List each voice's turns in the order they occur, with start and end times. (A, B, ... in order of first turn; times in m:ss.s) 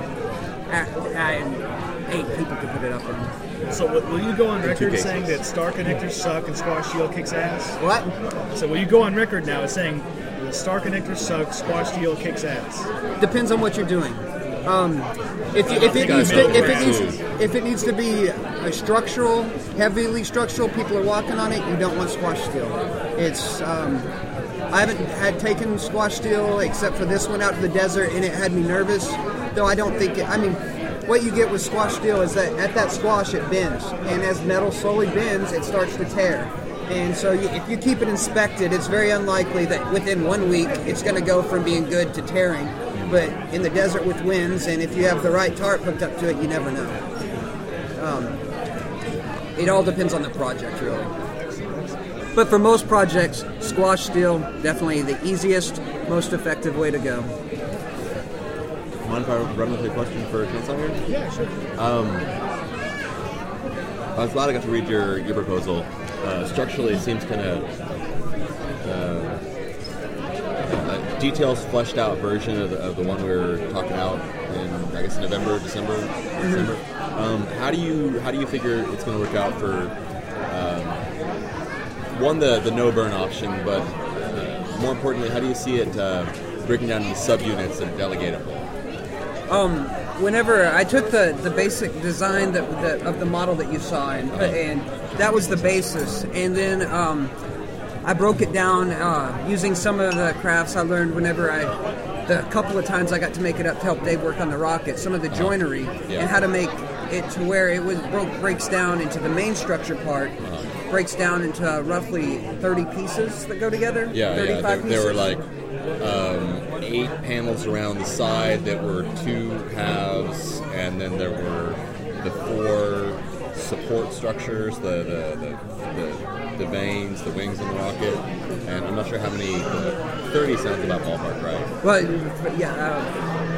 0:00.7-0:03.3 A
0:03.7-0:07.8 B
0:04.6-0:06.0 C
0:07.8-0:08.1 A
0:08.5-0:12.9 B
0:13.2-0:24.1 A
0:15.6-0:17.0 B
0:15.7-0:17.2 C
0:24.7-0:47.0 A
0:42.9-0:43.2 C
0:48.0-0:48.3 A
0:49.6-0:51.1 A
0:51.4-0:52.0 B
0:52.3-0:57.4 A
0:59.0-1:01.0 C
1:01.0-1:01.7 B
1:01.8-1:02.3 C
1:04.2-1:07.6 C
1:08.8-1:09.4 C
1:10.8-1:19.9 C
1:16.4-1:16.7 A
1:20.5-1:21.0 C
1:22.1-1:28.6 C
1:29.5-1:37.3 A
1:34.3-1:35.8 C
1:38.0-1:41.7 A
1:42.3-1:50.4 A
1:45.3-1:46.3 C
1:50.4-1:50.7 C
1:50.9-1:55.3 A
1:54.1-1:55.5 C
1:56.0-2:11.7 C
2:11.8-2:13.1 A